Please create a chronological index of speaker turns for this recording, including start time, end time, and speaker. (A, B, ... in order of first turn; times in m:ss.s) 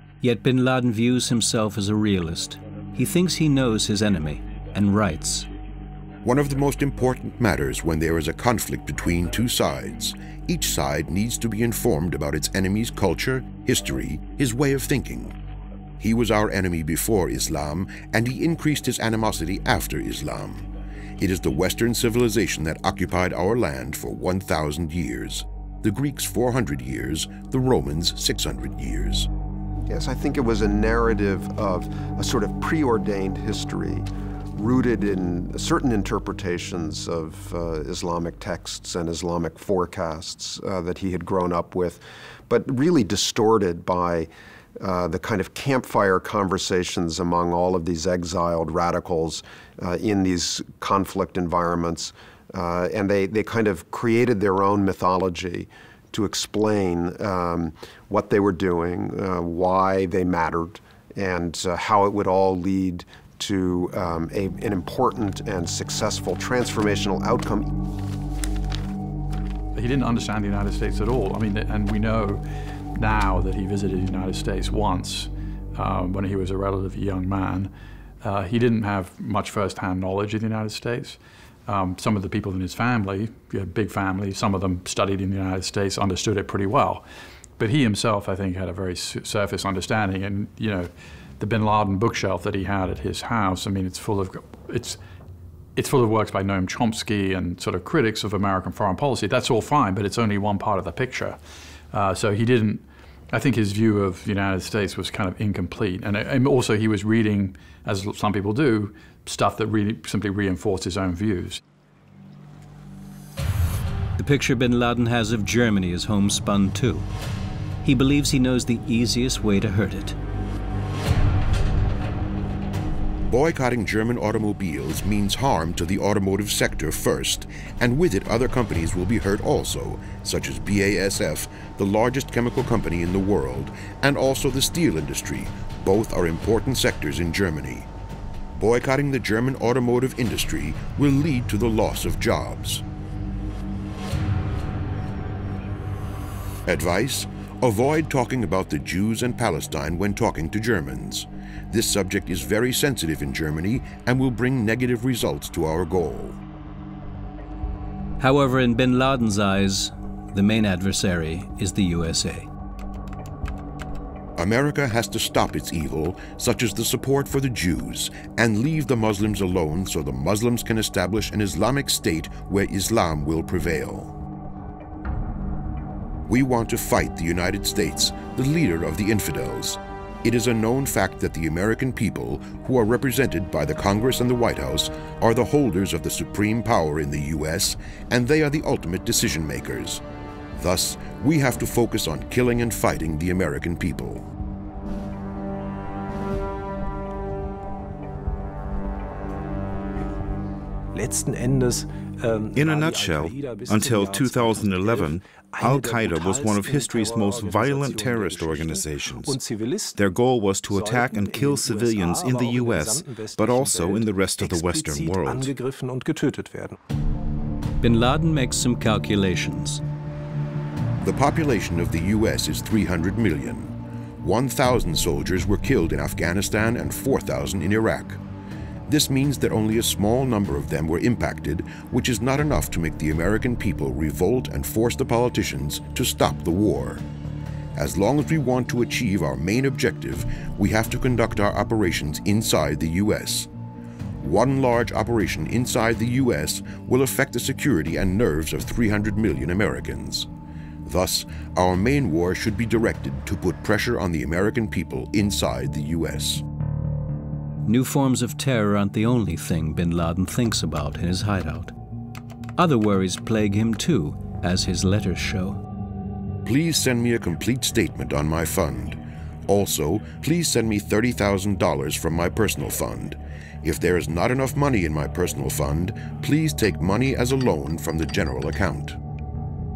0:00.2-0:05.5 A
0:06.2-0:15.3 B
0:16.0-0:20.6 B
0:21.2-0:29.3 B
0:29.9-1:07.7 C
1:09.7-1:12.4 D
1:12.9-1:17.7 D
1:18.2-1:27.0 D
1:27.6-1:35.0 D
1:35.8-1:41.4 D
1:41.9-1:51.6 D
1:54.2-1:57.1 A
1:57.8-2:00.2 A
2:03.3-2:17.9 B
2:18.6-2:22.8 B
2:26.6-2:36.4 B
2:38.2-2:42.5 A
2:44.4-2:54.1 B
2:56.3-3:10.0 B
3:10.6-3:14.2 B
3:20.9-3:30.0 E
3:22.5-3:29.4 F
3:30.0-3:35.5 F
3:30.6-3:36.8 E
3:37.8-3:39.8 A
3:41.0-3:48.2 B
3:48.9-3:57.0 B
3:57.7-4:03.5 B
4:04.2-4:10.3 B
4:10.8-4:16.4 B
4:17.6-4:21.7 A
4:22.6-4:25.6 A
4:26.4-4:39.0 B